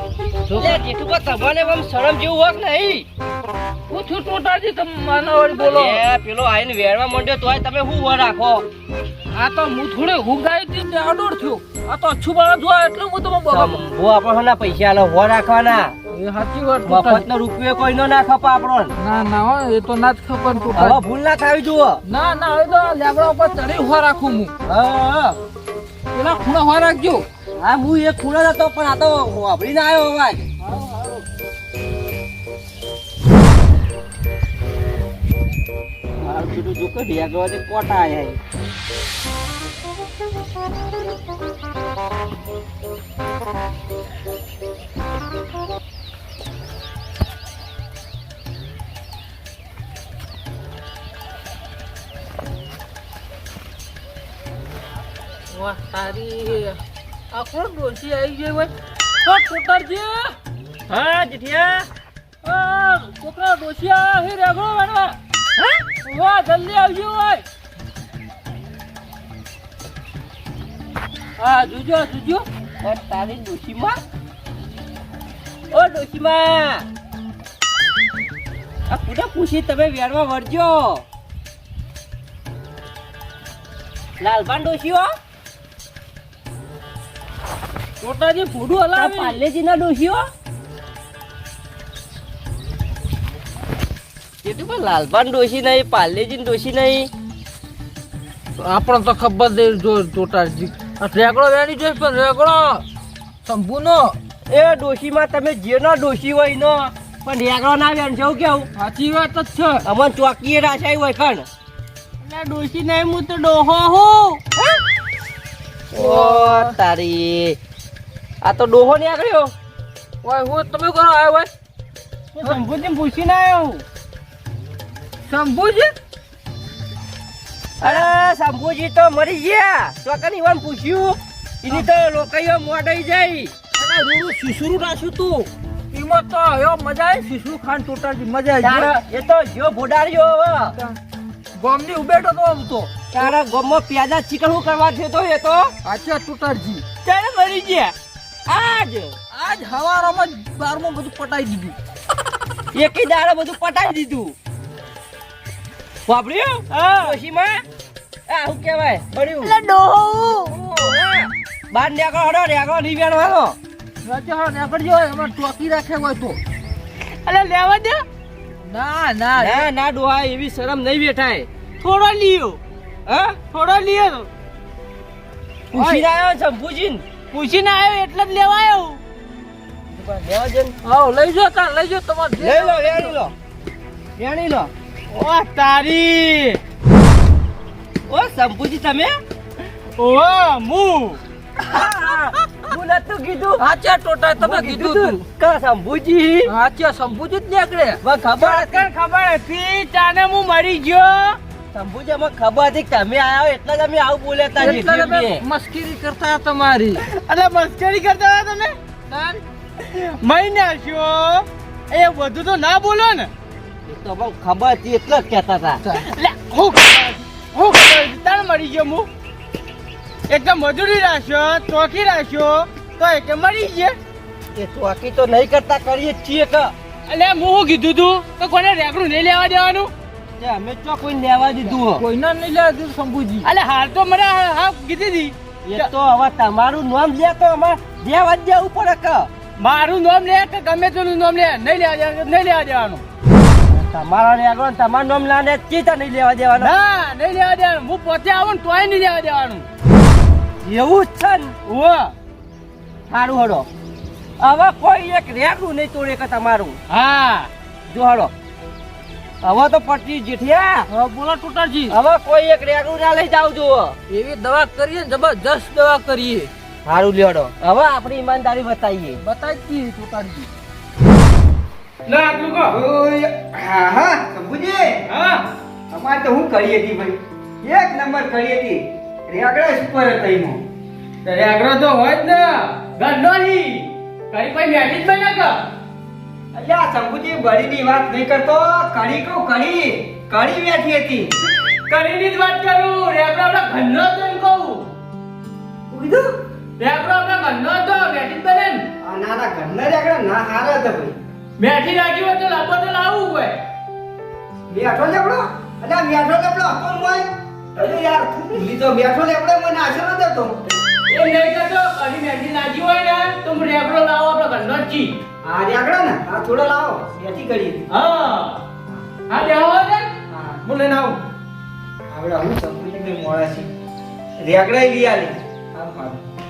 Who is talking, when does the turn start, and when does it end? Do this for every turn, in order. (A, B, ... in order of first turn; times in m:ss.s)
0:00.5-0:00.8 A
0:00.6-0:03.0 B
0:03.9-0:06.0 A
0:05.6-0:08.6 B
0:09.3-0:13.8 A
0:13.5-0:15.9 B
0:16.1-0:17.3 A
0:16.8-0:18.9 B
0:19.0-0:21.0 A
0:20.7-0:22.0 B
0:22.0-0:24.5 A
0:24.6-0:25.4 B
0:26.1-0:27.2 A
0:27.6-0:31.2 B
0:36.2-0:38.4 B
0:55.5-0:56.8 A
0:57.3-0:58.7 A
0:59.2-1:00.3 A
1:00.9-1:01.9 B
1:02.4-1:05.2 A
1:05.6-1:05.8 B
1:06.0-1:07.4 A
1:11.4-1:12.4 A
1:12.8-1:14.0 B
1:15.7-1:16.8 B
1:18.9-1:21.0 B
1:24.2-1:25.1 B
1:28.0-1:29.4 A
1:29.0-1:30.2 B
1:34.4-1:37.1 B
1:38.6-1:42.8 A
1:43.4-1:44.2 A
1:44.5-1:48.7 B
1:48.8-1:49.8 A
1:49.8-1:51.5 B
1:52.3-1:53.6 C
1:55.9-1:57.6 B
1:55.9-1:56.7 A
1:58.4-1:59.5 B
2:00.2-2:01.5 A
2:02.4-2:03.8 C
2:05.2-2:05.9 A
2:07.8-2:13.5 B
2:13.8-2:18.9 A
2:18.6-2:20.7 B
2:21.6-2:23.3 A
2:23.1-2:25.7 B
2:25.8-2:26.8 A
2:27.0-2:27.9 C
2:28.5-2:29.1 B
2:29.3-2:31.8 A
2:32.7-2:34.3 B
2:36.1-2:37.6 B
2:36.7-2:37.2 C
2:38.3-2:39.5 B
2:39.4-2:40.4 C
2:40.1-2:40.9 A
2:40.6-2:43.6 B
2:44.0-2:46.4 A
2:47.2-2:48.0 C
2:48.6-2:49.7 A
2:49.4-2:51.5 B
2:51.8-2:52.6 C
2:53.0-2:53.4 B
2:53.5-2:54.3 C
2:55.7-2:57.0 B
2:57.3-2:59.0 C
2:59.9-3:00.7 B
3:00.8-3:03.2 A
3:02.4-3:03.3 B
3:04.2-3:04.7 B
3:05.1-3:06.6 C
3:08.0-3:09.1 B
3:10.0-3:11.2 C
3:11.7-3:13.6 B
3:13.6-3:15.2 A
3:14.4-3:16.5 B
3:16.5-3:18.0 A
3:18.0-3:18.9 B
3:18.4-3:21.4 C
3:21.7-3:25.4 B
3:24.6-3:27.0 A
3:27.0-3:28.8 C
3:29.1-3:29.4 A
3:29.8-3:33.3 C
3:33.9-3:35.8 B
3:36.0-3:39.1 C
3:40.3-3:44.0 C
3:44.5-3:46.7 B
3:47.1-3:49.9 C
3:50.4-3:52.0 B
3:51.8-3:53.5 A
3:53.4-3:55.9 C
3:55.6-3:59.3 B
3:59.6-4:03.0 C
4:03.7-4:06.7 B
4:06.6-4:09.6 C
4:10.6-4:11.6 B
4:11.6-4:12.1 C
4:13.1-4:13.7 B
4:14.4-4:16.8 B
4:16.9-4:17.5 C
4:17.9-4:18.3 B
4:19.4-4:20.8 B
4:20.9-4:22.0 A
4:21.9-4:24.0 B
4:24.1-4:26.5 A
4:26.8-4:27.5 D
4:27.6-4:29.2 B
4:29.2-4:30.5 A
4:32.0-4:32.7 C
4:32.6-4:35.0 D
4:35.1-4:35.4 C
4:35.9-4:40.6 D
4:41.2-4:45.6 C
4:46.5-4:51.3 D
4:51.9-4:54.9 C
4:55.9-4:56.3 D
4:56.8-4:58.8 C
4:59.0-5:01.2 D
5:01.6-5:03.6 C
5:04.7-5:10.5 D
5:11.1-5:15.2 C
5:15.4-5:17.9 D
5:17.9-5:18.6 C
5:19.3-5:20.1 C
5:20.3-5:20.6 D
5:20.6-5:21.2 C
5:22.1-5:23.7 D
5:24.4-5:26.2 D